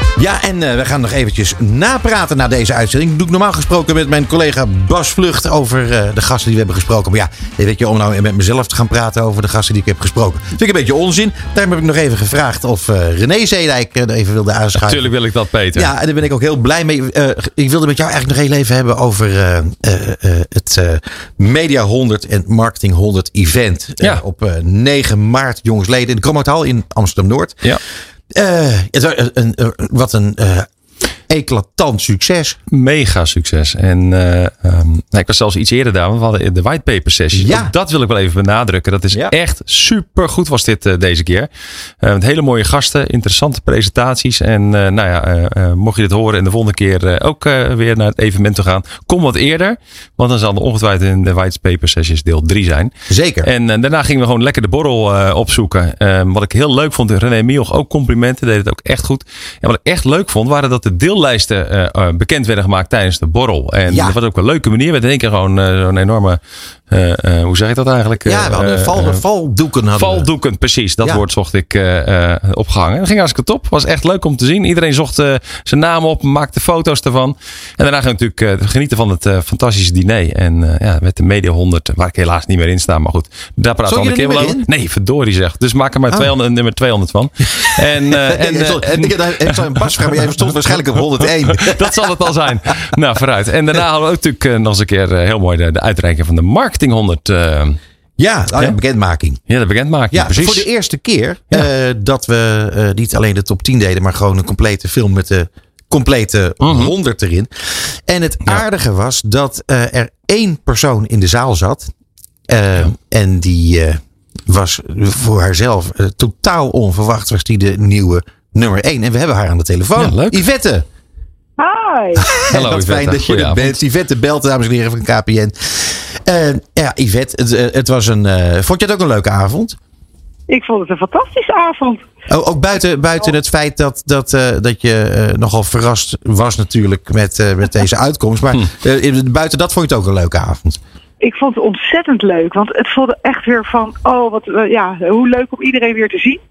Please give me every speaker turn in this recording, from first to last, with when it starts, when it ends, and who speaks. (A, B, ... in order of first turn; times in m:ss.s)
0:00.2-0:15.1 A
0:14.8-0:15.9 B
0:15.7-0:27.7 A
0:28.3-0:30.7 A
0:31.3-0:32.6 A
0:32.7-0:41.5 B
0:37.3-0:37.7 A
0:42.0-0:52.9 B
0:53.1-0:53.5 A
0:53.4-1:06.4 B
1:03.9-1:04.2 A
1:06.9-1:09.2 B
1:08.2-1:10.3 A
1:10.0-1:30.1 B
1:23.8-1:24.7 A
1:28.2-1:32.0 A
1:31.6-1:37.8 B
1:38.2-1:39.4 A
1:39.5-1:40.7 B
1:40.1-1:51.9 A
1:46.6-1:46.9 B
1:52.5-2:00.8 A
2:00.0-2:00.4 B
2:01.6-2:02.3 C
2:02.2-2:09.8 A
2:02.5-2:03.8 B
2:10.5-2:12.0 C
2:12.3-2:20.8 A
2:21.2-2:26.4 C